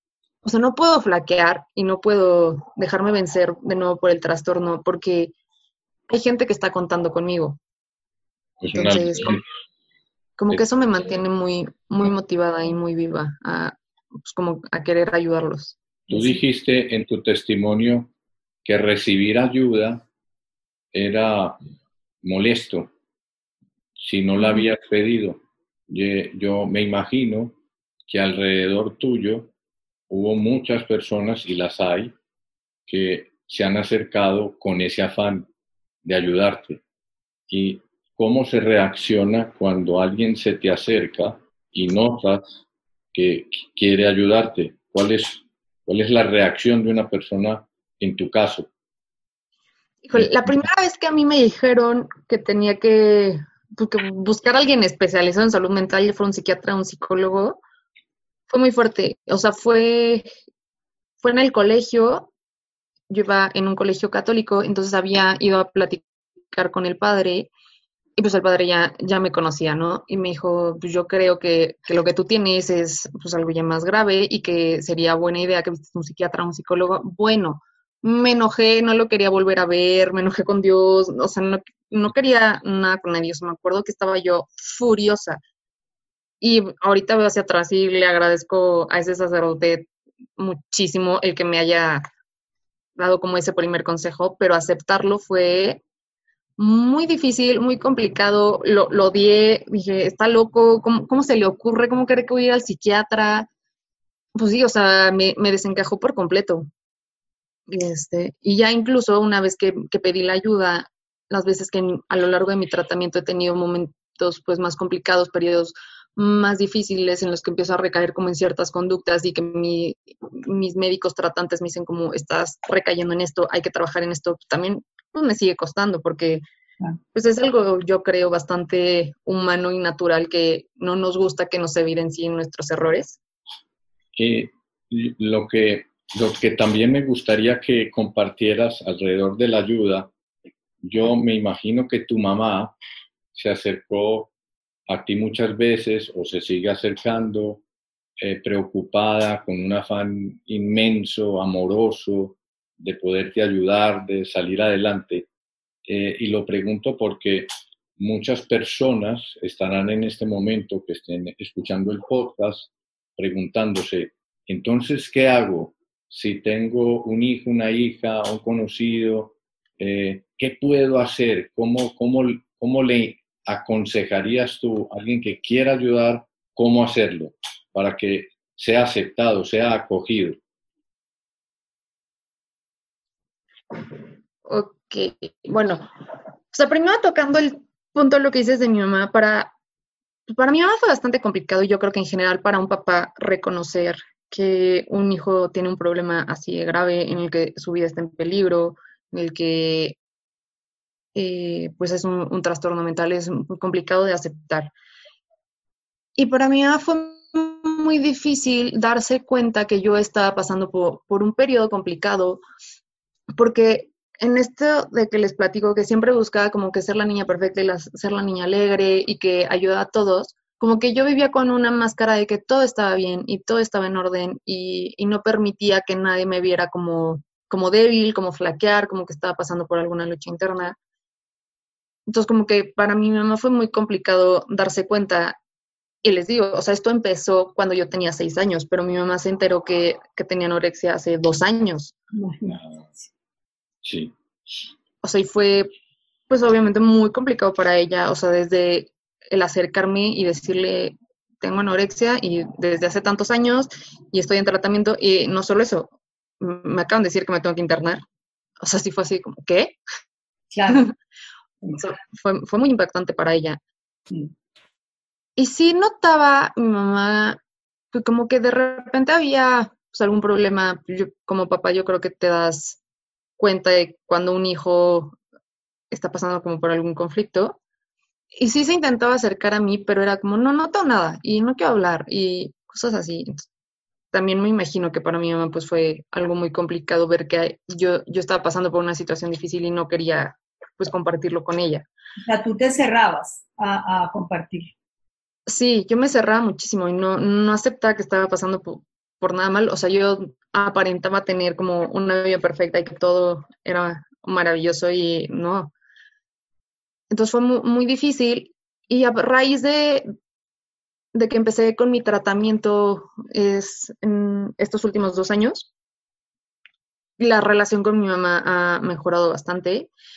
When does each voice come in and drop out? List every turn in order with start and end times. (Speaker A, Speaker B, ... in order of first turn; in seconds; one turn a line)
Speaker A: 0.4-5.3
Speaker A: 6.1-7.6
Speaker B: 8.6-9.4
Speaker A: 8.7-9.4
Speaker A: 10.4-15.8
Speaker B: 16.1-18.1
Speaker B: 18.6-20.0
Speaker B: 20.9-21.6
Speaker B: 22.2-22.9
Speaker B: 24.0-27.6
Speaker B: 28.1-29.5
Speaker B: 30.1-32.1
Speaker B: 32.9-35.5
Speaker B: 36.0-36.8
Speaker B: 37.5-42.6
Speaker B: 43.1-48.7
Speaker A: 50.0-57.6
Speaker A: 58.5-60.3
Speaker A: 61.2-62.3
Speaker A: 63.1-67.5
Speaker A: 68.2-85.4
Speaker A: 86.4-92.0
Speaker A: 93.0-95.8
Speaker A: 96.6-103.5
Speaker A: 104.3-106.7
Speaker A: 107.7-126.4
Speaker A: 127.1-133.2
Speaker B: 134.1-140.1
Speaker B: 140.8-142.7
Speaker B: 143.3-144.3
Speaker B: 144.9-147.6
Speaker B: 148.2-155.3
Speaker B: 155.8-180.4
Speaker A: 184.4-185.8
Speaker A: 186.5-189.5
Speaker A: 190.3-200.0
Speaker A: 201.1-204.7
Speaker A: 206.2-212.4
Speaker A: 213.3-230.8
Speaker A: 232.1-235.4
Speaker A: 236.0-241.9
Speaker C: 242.1-242.6
Speaker B: 242.5-242.8
Speaker B: 243.8-244.1
Speaker A: 245.0-245.7
Speaker A: 246.3-258.0
Speaker A: 258.6-259.8
Speaker C: 260.5-260.9
Speaker A: 260.7-260.9
Speaker A: 261.8-263.6
Speaker A: 265.4-267.4
Speaker A: 267.9-272.8
Speaker A: 273.4-275.1
Speaker A: 275.9-277.6
Speaker A: 278.3-283.4
Speaker A: 284.1-291.9
Speaker C: 292.2-294.7
Speaker A: 295.5-305.7
Speaker A: 307.1-310.1
Speaker A: 311.1-315.7
Speaker A: 317.2-319.9